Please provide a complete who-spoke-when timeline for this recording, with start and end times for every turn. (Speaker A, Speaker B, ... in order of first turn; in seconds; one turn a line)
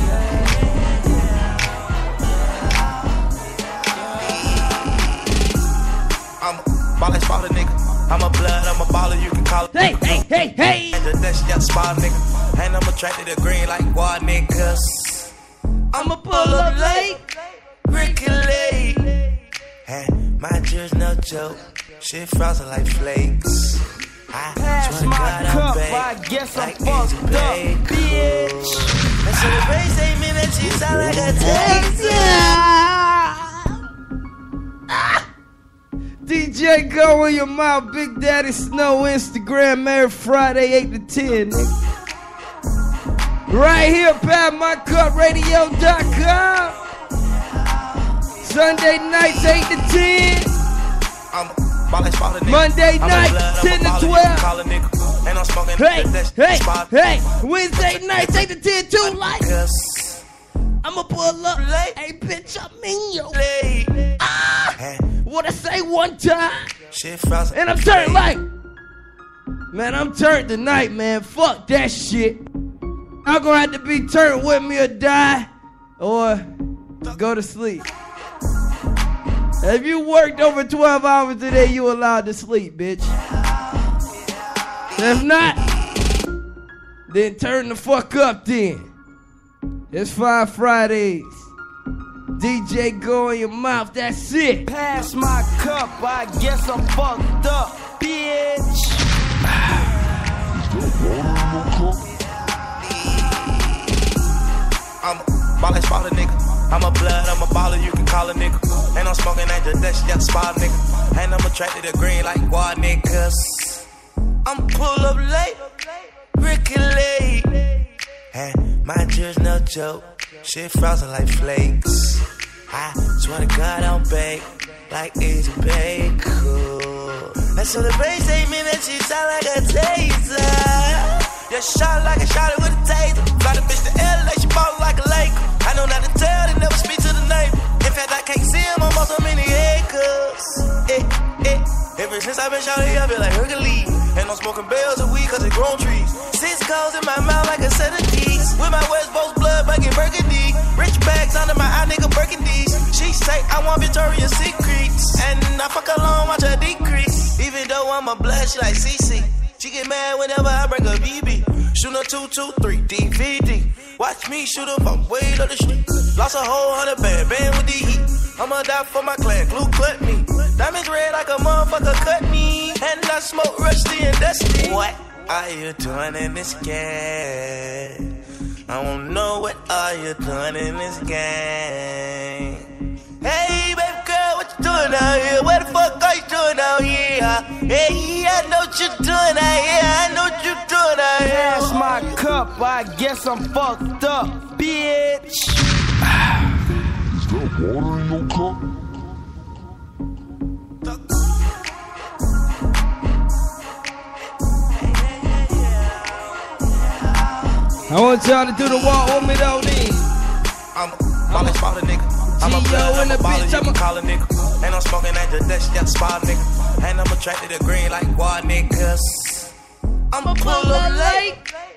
Speaker A: 4.2-5.2
Speaker A: 6.4-15.3
Speaker B: 9.7-11.1
Speaker A: 15.9-17.1
Speaker B: 15.9-17.2
Speaker A: 17.8-19.1
Speaker A: 19.8-32.4
Speaker C: 24.6-28.9
Speaker B: 31.4-33.5
Speaker B: 34.9-35.2
Speaker B: 36.2-41.7
Speaker B: 43.5-46.8
Speaker B: 48.4-50.5
Speaker A: 51.3-60.2
Speaker B: 52.4-54.5
Speaker B: 55.8-59.5
Speaker B: 60.8-63.4
Speaker A: 61.5-62.0
Speaker A: 63.3-64.2
Speaker B: 64.2-66.7
Speaker A: 64.8-65.1
Speaker A: 66.9-68.3
Speaker B: 67.5-68.4
Speaker B: 69.7-72.4
Speaker B: 73.2-76.5
Speaker B: 77.1-77.9
Speaker B: 79.6-83.1
Speaker B: 85.0-85.6
Speaker B: 87.1-88.9
Speaker B: 89.9-91.5
Speaker B: 92.4-94.7
Speaker C: 94.6-99.0
Speaker A: 102.8-103.8
Speaker A: 105.0-113.9
Speaker A: 114.4-117.7
Speaker A: 118.3-178.1
Speaker A: 178.7-182.7
Speaker A: 183.2-192.0
Speaker C: 191.2-195.6
Speaker A: 200.8-201.4
Speaker A: 204.7-207.5
Speaker B: 207.9-210.0
Speaker A: 210.7-219.5
Speaker B: 211.3-211.6
Speaker B: 212.4-213.8
Speaker A: 220.1-221.4
Speaker B: 220.2-221.4